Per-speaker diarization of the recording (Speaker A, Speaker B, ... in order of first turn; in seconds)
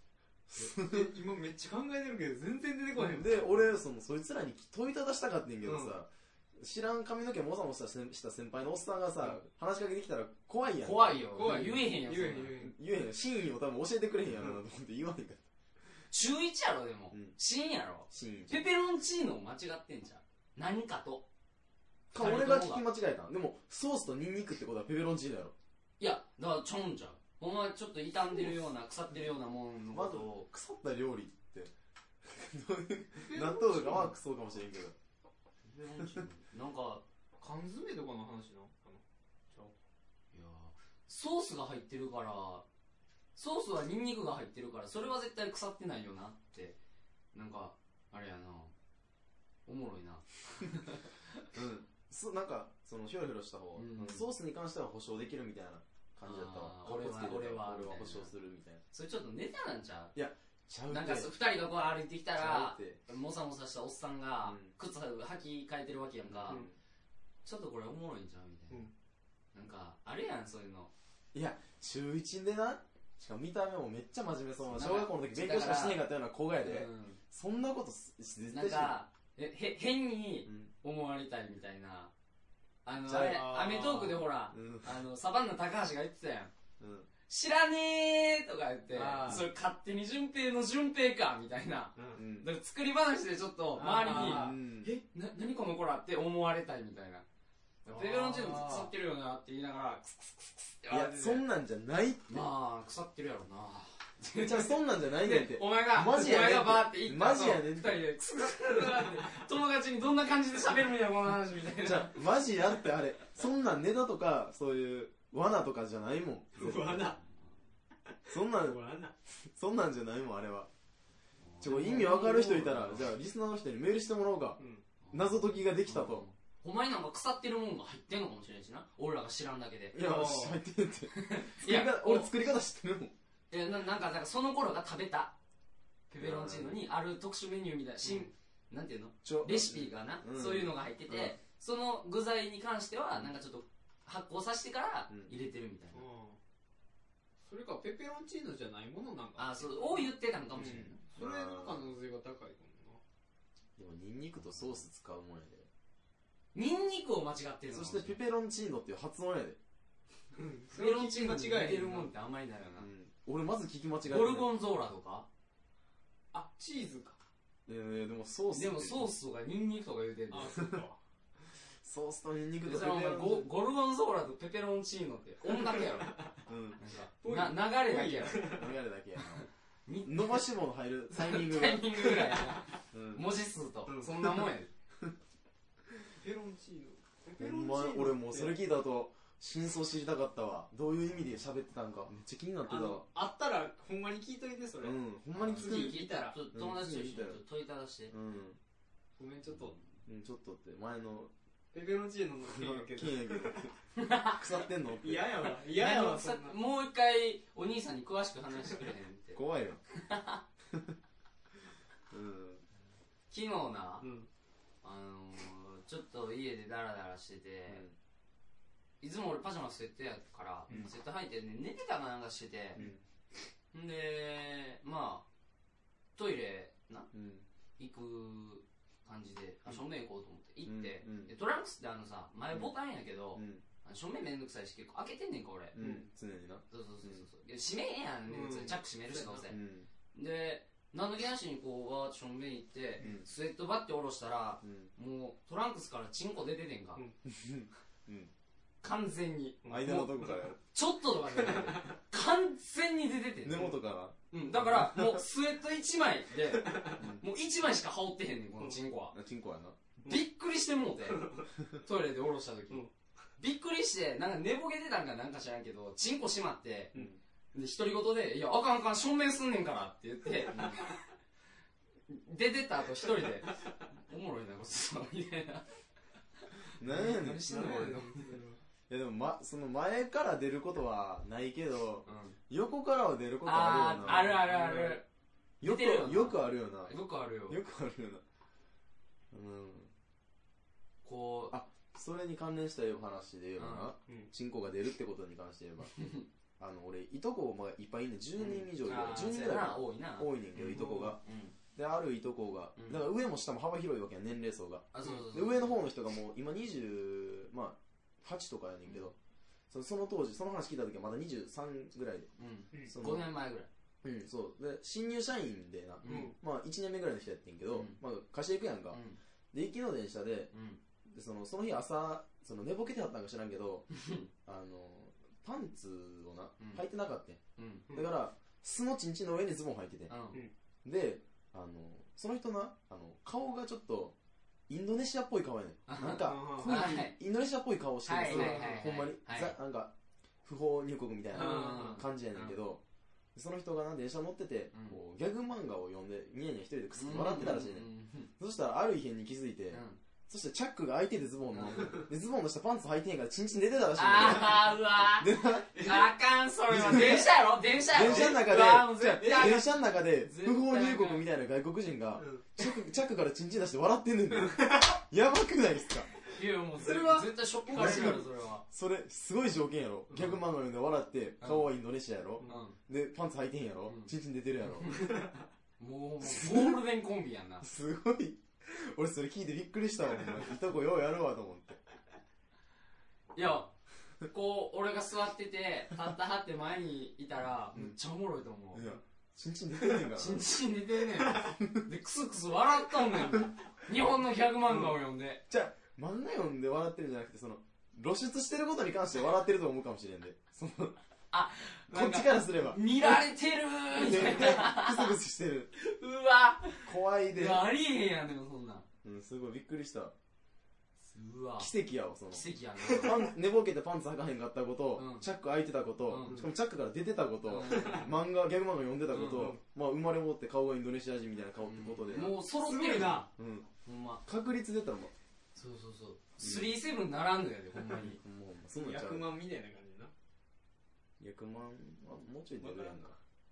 Speaker A: 0.5-1.1, 2.9-11.2, 12.6-15.4, 18.1-18.7, 22.1-25.5, 29.9-31.7, 32.2-34.9, 51.5-58.8, 60.1-61.3, 62.4-63.0, 64.4-64.7, 66.3-66.7, 71.3-78.9, 80.5-80.7, 83.1-83.5, 84.5-85.0, 86.8-87.1, 92.1-92.5, 94.0-94.9, 100.9-102.4, 104.4-108.0, 111.8-117.2, 118.3-118.8, 119.4-120.7, 121.6-124.6, 125.1-126.2, 129.9-133.1, 136.2-136.8, 139.2-141.3, 145.1-145.3, 150.7-151.8, 153.8-155.7, 157.7-159.6, 162.8-164.5, 167.7-169.1, 170.6-170.8, 171.8-173.5, 176.5-176.8, 178.4-179.5, 180.0-182.0, 182.9-183.2, 187.4-193.0, 194.8-196.0, 196.5-197.4, 198.1-198.6, 200.1-201.3, 202.5-203.7, 204.2-205.3, 209.3-209.8, 210.7-210.9, 212.1-212.6, 217.7-217.9, 222.8-223.0, 227.1-227.4, 230.6-231.3, 233.3-233.6, 235.7-237.2, 239.5-239.9, 243.0-243.3, 244.6-244.9, 247.2-248.3, 249.7-250.6, 253.4-255.2, 257.0-257.2, 259.1-259.8, 266.9-267.2, 270.5-270.8, 276.8-277.9, 278.9-284.4, 285.6-288.2, 289.3-289.9, 291.5-295.9, 296.6-301.2, 301.7-309.1, 309.7-312.3, 312.9-313.3, 314.0-319.0, 319.5-320.5, 321.1-323.9, 324.4-327.4, 327.9-330.1, 330.8-334.1, 334.7-339.9, 340.4-342.8, 343.3-347.9, 348.4-355.9, 356.7-357.3, 357.9-366.1, 367.7-375.1, 376.2-376.8, 377.6-381.8, 388.7-390.4, 391.3-391.9, 395.5-401.0, 401.9-403.3, 403.9-405.7, 406.8-407.6, 409.0-410.1, 411.6-422.4, 423.4-423.7, 424.2-425.1, 426.4-426.8, 427.7-429.3, 431.2-433.2
Speaker B: 0.6-3.7, 5.6-5.9, 11.3-12.7, 33.2-34.1, 37.4-39.7, 83.1-84.2, 88.9-89.5, 92.0-92.2, 93.7-94.6, 97.9-98.9, 116.5-117.2, 118.3-119.1, 121.7-122.7, 124.6-124.8, 130.0-130.6, 138.0-138.3, 145.9-146.4, 147.4-153.0, 160.3-162.1, 166.3-167.2, 170.3-171.0, 175.5-176.4, 177.2-178.8, 182.0-182.6, 183.9-184.5, 186.0-188.6, 192.7-195.0, 195.5-196.4, 199.2-199.7, 201.7-203.7, 205.0-206.6, 214.0-214.3, 235.8-236.0, 238.3-239.4, 249.6-250.1, 251.4-251.9, 256.5-257.0, 261.1-261.5, 277.4-278.6, 284.0-285.0, 300.6-301.0, 316.0-316.3, 336.1-336.8, 338.2-338.8, 341.3-342.0, 351.8-352.0, 355.7-356.1, 358.0-358.4, 359.1-359.7, 362.2-362.4, 364.4-365.0, 366.8-368.1, 375.0-375.3, 412.9-413.1, 417.7-418.0, 419.3-419.6, 422.6-423.3, 428.7-430.1, 432.6-433.1
Speaker C: 10.8-12.6, 16.1-21.2, 22.1-22.8, 26.0-30.5, 35.6-37.0, 40.3-42.6, 43.3-46.8, 47.3-48.7, 49.6-51.1, 53.7-54.2, 56.2-58.3, 58.9-60.1, 60.9-66.6, 67.4-68.9, 69.5-70.9, 74.7-76.0, 76.6-77.2, 78.5-82.1, 82.8-86.5, 87.3-97.2, 97.8-101.4, 102.3-112.2, 121.4-123.0, 125.0-130.0, 131.1-132.3, 133.5-135.3, 136.1-146.0, 149.4-151.0, 156.5-158.2, 160.7-162.9, 164.0-165.3, 168.5-170.6, 172.6-176.2, 176.8-178.6, 179.8-180.4, 181.2-184.7, 195.3-198.1, 199.5-199.9, 203.9-204.4, 205.7-210.4, 213.3-214.1, 214.8-217.8, 219.0-222.8, 223.7-225.2, 226.2-227.1, 227.8-235.8, 236.7-239.6, 240.1-247.0, 248.8-253.7, 254.3-259.1, 260.0-262.9, 263.4-266.9, 267.5-271.0, 272.1-275.6, 276.5-278.3, 282.1-282.4, 283.4-285.0, 285.6-287.6, 291.0-291.5, 293.6-293.9, 295.9-296.3, 298.4-301.6, 302.8-303.0, 304.9-305.8, 312.4-313.7, 316.0-316.3, 317.7-318.0, 318.9-319.2, 320.5-320.8, 323.9-324.3, 327.6-327.9, 330.1-330.4, 335.9-337.1, 338.0-339.5, 341.3-342.6, 344.7-345.0, 346.9-348.3, 349.7-350.0, 351.5-351.9, 354.0-361.2, 366.3-368.6, 371.4-371.7, 372.4-372.8, 373.9-374.1, 374.8-375.2, 375.8-377.6, 383.3-383.7, 384.3-388.9, 390.1-395.4, 401.3-405.1, 405.7-408.9, 411.1-411.7, 412.3-413.2, 414.9-415.3, 416.1-416.4, 417.4-418.1, 419.1-419.5, 421.6-423.3, 423.8-424.2, 425.6-428.2